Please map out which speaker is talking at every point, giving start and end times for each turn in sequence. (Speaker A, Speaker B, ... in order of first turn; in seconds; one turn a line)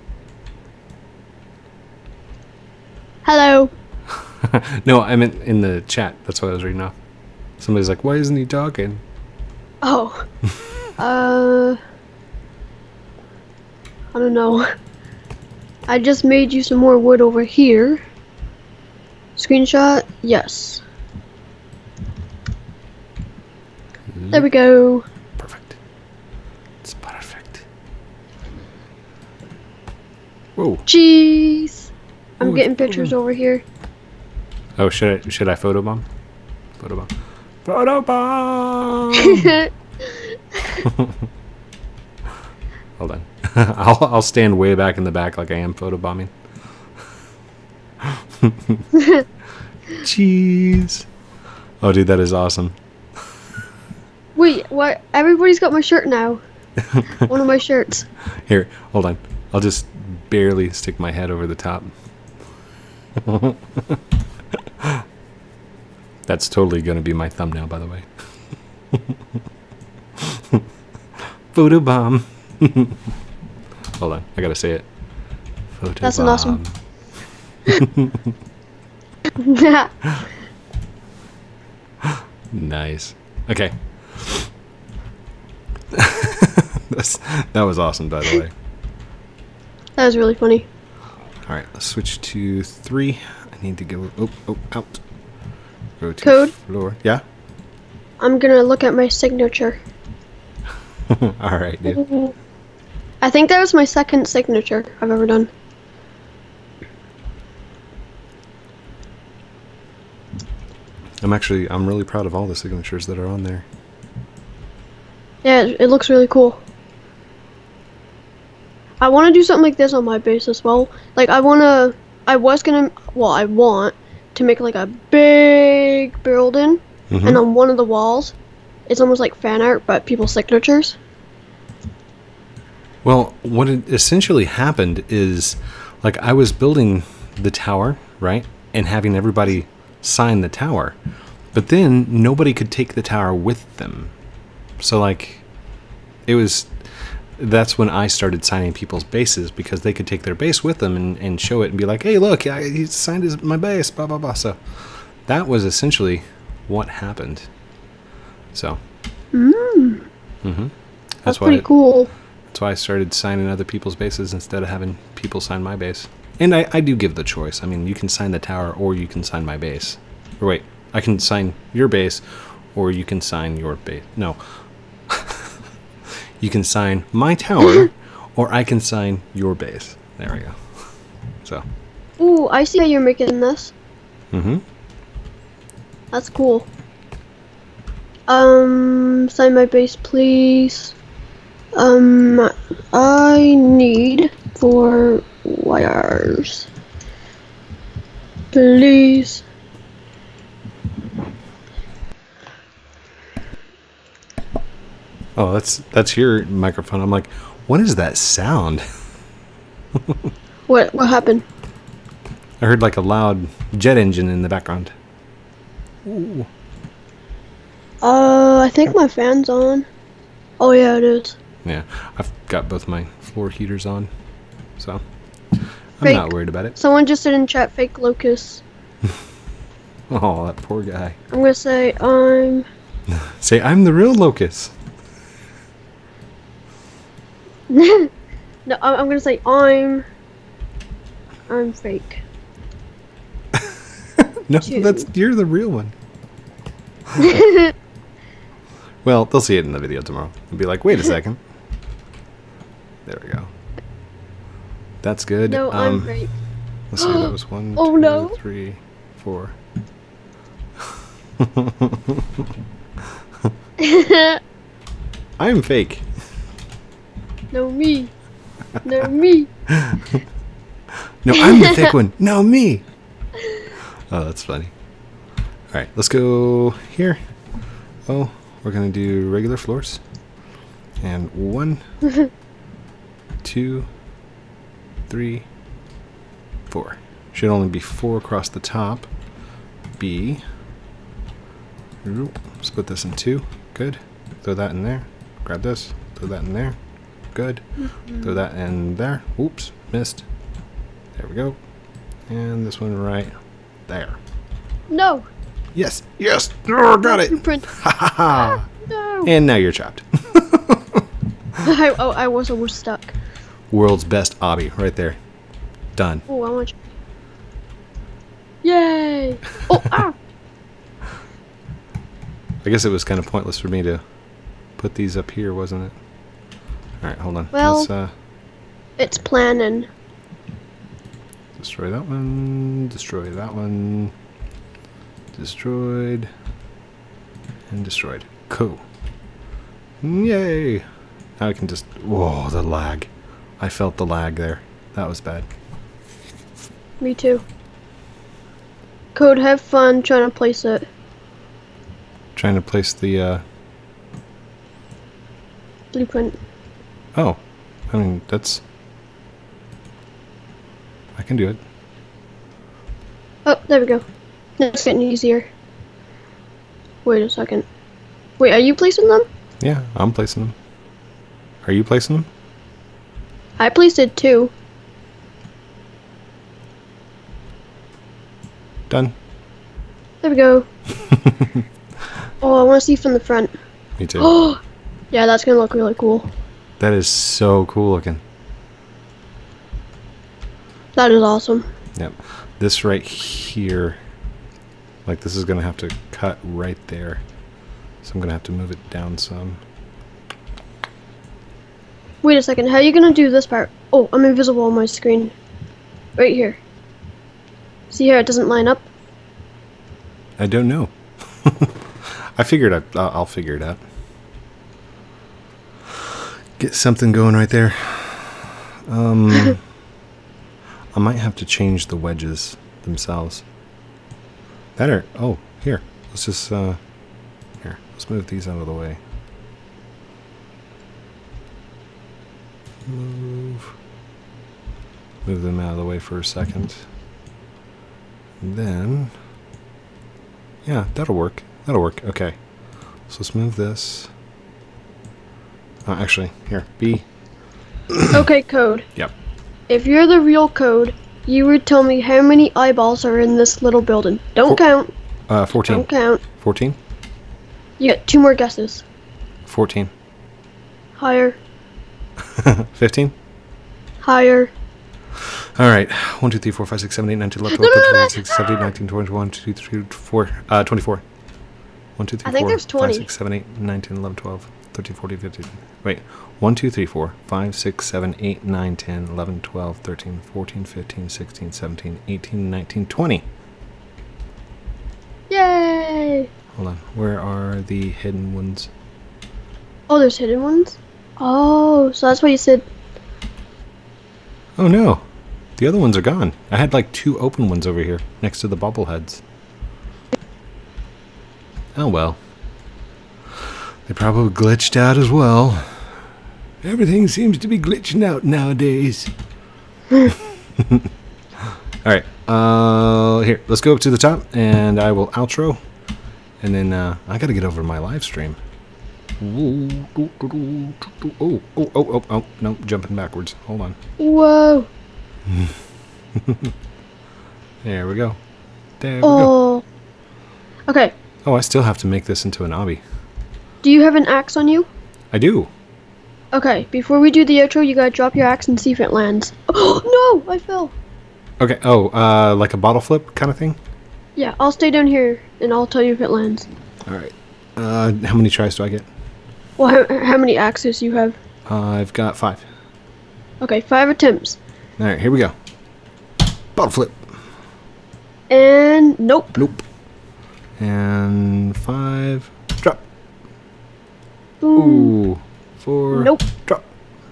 Speaker A: 3.2-3.7
Speaker B: 4.3-6.9
Speaker B: 7.6-9.0
Speaker A: 9.8-10.2
Speaker A: 11.0-11.8
Speaker A: 14.1-14.7
Speaker A: 15.9-18.0
Speaker A: 19.4-20.8
Speaker B: 24.1-24.5
Speaker A: 24.3-25.1
Speaker B: 25.4-25.8
Speaker B: 26.8-27.6
Speaker B: 30.6-30.8
Speaker A: 30.9-31.9
Speaker B: 32.4-33.1
Speaker A: 32.4-33.6
Speaker B: 34.8-36.1
Speaker B: 36.8-37.1
Speaker B: 37.6-39.6
Speaker A: 39.1-40.8
Speaker B: 40.8-41.2
Speaker B: 43.0-46.3
Speaker B: 48.0-48.9
Speaker A: 48.9-49.2
Speaker B: 49.9-51.0
Speaker B: 51.8-52.8
Speaker A: 54.4-56.4
Speaker B: 56.8-57.3
Speaker A: 57.1-58.0
Speaker B: 58.5-61.9
Speaker B: 63.2-64.0
Speaker B: 64.5-65.0
Speaker B: 66.2-68.1
Speaker B: 68.9-69.2
Speaker B: 70.2-70.6
Speaker B: 71.5-73.0
Speaker B: 74.0-74.9
Speaker B: 75.7-76.7
Speaker A: 76.0-76.6
Speaker B: 77.7-78.3
Speaker A: 79.4-79.9
Speaker B: 82.0-84.5
Speaker B: 85.9-88.5
Speaker A: 90.0-90.7
Speaker B: 91.5-95.0
Speaker B: 96.0-97.2
Speaker A: 96.2-96.5
Speaker A: 98.2-99.8
Speaker B: 101.1-102.0
Speaker A: 102.0-102.3
Speaker A: 103.2-105.5
Speaker B: 111.2-113.7
Speaker A: 115.4-116.6
Speaker A: 119.0-128.3
Speaker B: 127.1-127.4
Speaker A: 128.9-131.0
Speaker B: 133.0-141.0
Speaker B: 141.5-144.1
Speaker B: 144.8-145.4
Speaker B: 146.2-157.5
Speaker B: 158.5-158.8
Speaker A: 159.3-160.1
Speaker B: 160.4-160.7
Speaker B: 161.2-161.7
Speaker A: 161.2-162.1
Speaker B: 162.5-174.4
Speaker B: 175.1-175.6
Speaker B: 176.4-180.6
Speaker A: 182.2-183.7
Speaker B: 184.3-184.6
Speaker A: 186.1-186.7
Speaker A: 188.3-190.9
Speaker A: 191.7-196.7
Speaker A: 198.5-199.4
Speaker B: 205.3-208.8
Speaker B: 209.9-210.3
Speaker A: 210.7-211.4
Speaker B: 212.6-214.9
Speaker B: 216.0-216.5
Speaker A: 218.0-219.8
Speaker A: 220.6-221.4
Speaker B: 221.6-224.1
Speaker B: 226.0-226.8
Speaker A: 226.0-228.6
Speaker B: 230.1-231.2
Speaker A: 231.3-232.7
Speaker B: 233.1-234.7
Speaker A: 237.7-238.1
Speaker A: 238.7-240.1
Speaker A: 241.5-242.2
Speaker B: 243.5-245.9
Speaker A: 244.6-245.1
Speaker B: 247.1-247.4
Speaker A: 247.2-247.7
Speaker B: 249.0-251.4
Speaker B: 253.0-253.5
Speaker B: 255.0-256.2
Speaker A: 255.5-256.3
Speaker B: 256.9-259.6
Speaker A: 257.0-258.4
Speaker B: 261.4-262.4
Speaker A: 263.8-264.4
Speaker B: 265.4-266.1
Speaker A: 267.5-268.1
Speaker A: 268.8-269.5
Speaker B: 269.7-270.2
Speaker B: 271.2-272.8
Speaker A: 271.4-271.9
Speaker B: 274.1-274.7
Speaker B: 275.7-277.2
Speaker B: 278.1-280.0
Speaker B: 281.0-281.8
Speaker B: 283.4-283.9
Speaker B: 285.1-285.5
Speaker B: 286.7-289.1
Speaker B: 290.0-290.4
Speaker B: 292.0-296.8
Speaker B: 297.3-300.2
Speaker B: 301.1-301.6
Speaker B: 302.3-303.3
Speaker B: 303.9-304.2
Speaker A: 304.9-305.3
Speaker B: 305.7-308.6
Speaker A: 307.0-307.7
Speaker A: 308.3-309.3
Speaker B: 309.2-311.1
Speaker A: 311.6-313.1
Speaker B: 313.7-315.2
Speaker B: 315.9-316.2
Speaker A: 316.3-316.8
Speaker A: 318.6-320.1
Speaker B: 322.6-324.0
Speaker B: 324.8-325.9
Speaker B: 327.0-328.1
Speaker A: 327.5-327.9
Speaker A: 329.0-329.9
Speaker B: 331.6-334.1
Speaker B: 335.3-336.3
Speaker B: 337.7-338.8
Speaker B: 340.0-340.8
Speaker B: 341.4-345.5
Speaker A: 347.0-347.4
Speaker A: 349.1-350.9
Speaker B: 352.4-353.4
Speaker A: 355.9-356.4
Speaker B: 357.1-358.6
Speaker B: 361.1-361.6
Speaker A: 363.4-364.0
Speaker A: 364.6-365.5
Speaker A: 367.0-367.6
Speaker A: 368.4-369.2
Speaker B: 369.6-370.5
Speaker B: 371.6-372.3
Speaker A: 373.6-374.5
Speaker B: 378.9-379.1
Speaker A: 380.2-380.7
Speaker B: 381.1-381.6
Speaker A: 382.4-383.5
Speaker B: 384.0-384.3
Speaker A: 384.2-384.6
Speaker A: 385.1-386.3
Speaker B: 386.8-388.2
Speaker A: 390.9-391.7
Speaker B: 391.9-394.0
Speaker B: 395.1-397.2
Speaker B: 398.0-399.6
Speaker A: 402.2-405.3
Speaker A: 406.2-406.6
Speaker A: 407.9-408.9
Speaker B: 410.4-413.8
Speaker B: 416.6-419.6
Speaker B: 420.9-423.4
Speaker B: 424.8-426.8
Speaker B: 427.6-429.0
Speaker B: 432.8-433.7
Speaker B: 435.2-436.9
Speaker B: 438.4-439.1
Speaker B: 440.6-442.4
Speaker B: 443.1-444.1
Speaker B: 445.9-447.1
Speaker B: 447.9-448.3
Speaker A: 448.1-448.9
Speaker A: 449.7-454.9
Speaker B: 455.3-456.8
Speaker A: 455.6-456.2
Speaker A: 457.8-458.8
Speaker B: 459.5-459.9
Speaker A: 461.0-461.4
Speaker B: 462.3-463.1
Speaker A: 464.0-464.5
Speaker B: 465.2-471.0
Speaker A: 467.5-468.4
Speaker B: 472.0-483.2
Speaker A: 472.2-473.1
Speaker A: 485.3-486.3
Speaker B: 486.5-488.7
Speaker A: 489.9-492.6
Speaker B: 494.6-495.0
Speaker B: 495.6-499.2
Speaker B: 501.8-502.2
Speaker B: 503.4-505.9
Speaker B: 506.6-509.1
Speaker B: 510.0-515.6
Speaker B: 516.4-518.4
Speaker B: 519.2-523.8
Speaker A: 524.0-524.7
Speaker B: 525.2-525.5
Speaker B: 526.1-526.5
Speaker B: 527.6-528.2
Speaker B: 528.8-529.3
Speaker A: 529.0-529.6
Speaker A: 530.7-530.9
Speaker B: 531.2-532.8
Speaker A: 533.6-534.7
Speaker B: 535.1-535.5
Speaker A: 536.3-540.7
Speaker B: 541.4-543.6
Speaker A: 544.2-546.5
Speaker B: 546.9-548.9
Speaker A: 549.6-551.2
Speaker B: 551.5-552.4
Speaker A: 553.4-554.4
Speaker B: 554.8-555.3
Speaker B: 556.5-557.1
Speaker A: 558.3-559.4
Speaker B: 559.4-559.6
Speaker B: 560.6-562.8
Speaker A: 564.4-564.9
Speaker B: 564.5-566.6
Speaker A: 565.9-566.2